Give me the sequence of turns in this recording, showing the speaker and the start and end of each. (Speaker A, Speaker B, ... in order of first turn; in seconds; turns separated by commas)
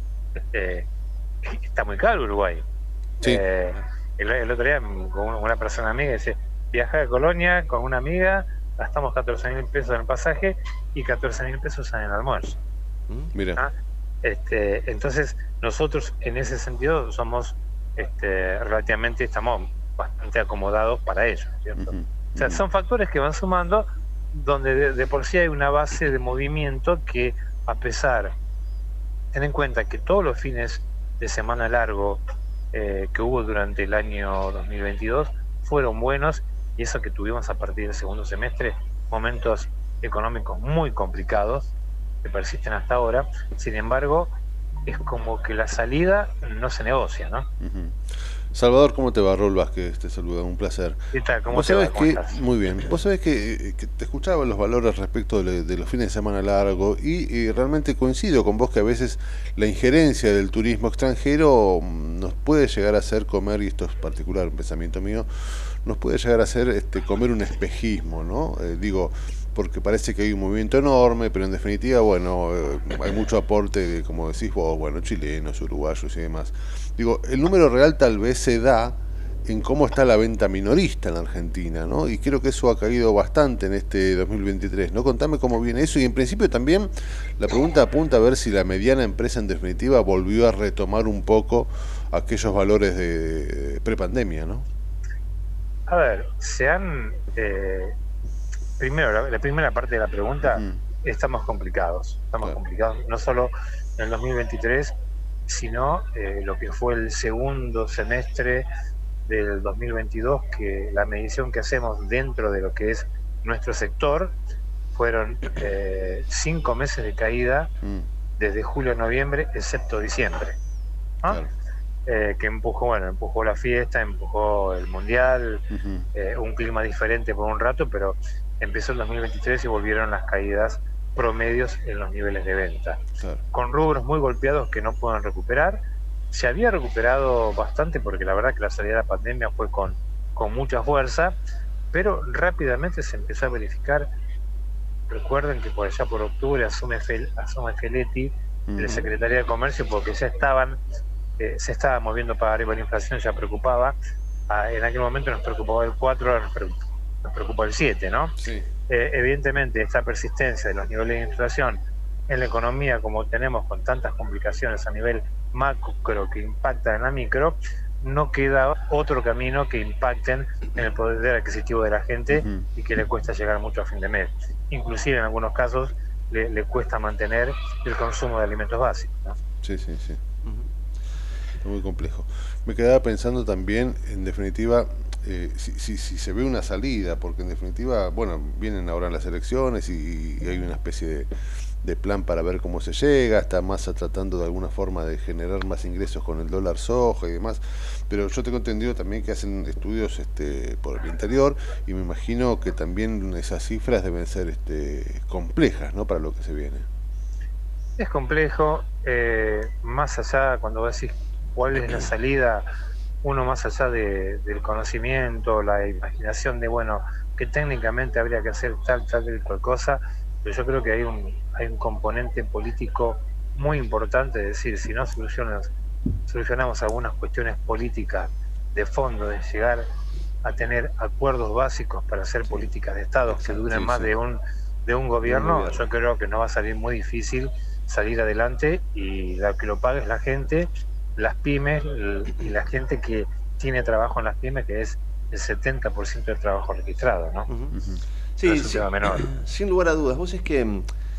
Speaker A: 0.4-0.8, Speaker A: 1.4-2.6, Speaker A: 3.2-12.6, Speaker B: 13.3-13.6, Speaker A: 14.2-28.3, Speaker B: 21.8-22.6, Speaker A: 29.3-32.2, Speaker A: 32.7-41.7, Speaker A: 42.2-44.3, Speaker A: 44.9-47.5, Speaker B: 47.6-48.0, Speaker B: 48.5-51.0, Speaker A: 51.1-52.4, Speaker B: 51.5-94.7, Speaker A: 95.9-97.9, Speaker A: 98.8-104.9, Speaker B: 100.4-100.8, Speaker A: 105.5-108.7, Speaker A: 109.2-114.3, Speaker A: 114.9-117.7, Speaker B: 117.8-118.1, Speaker A: 118.4-120.5, Speaker A: 122.1-133.0, Speaker B: 125.7-126.1, Speaker A: 133.5-135.8, Speaker A: 136.3-141.4, Speaker A: 141.9-144.1, Speaker A: 145.1-150.8, Speaker B: 148.7-149.1, Speaker A: 151.4-154.0, Speaker A: 154.5-158.3, Speaker B: 158.4-158.7, Speaker A: 158.9-161.8, Speaker A: 162.3-179.4, Speaker B: 172.3-172.7, Speaker B: 179.6-180.2, Speaker B: 181.6-191.3, Speaker B: 191.8-206.9, Speaker A: 208.0-212.7, Speaker A: 213.2-225.7, Speaker A: 226.3-229.8, Speaker A: 230.4-247.5, Speaker B: 233.3-234.1, Speaker C: 235.2-235.8, Speaker C: 247.5-247.8, Speaker B: 247.7-248.0, Speaker C: 248.4-250.8, Speaker A: 248.4-249.3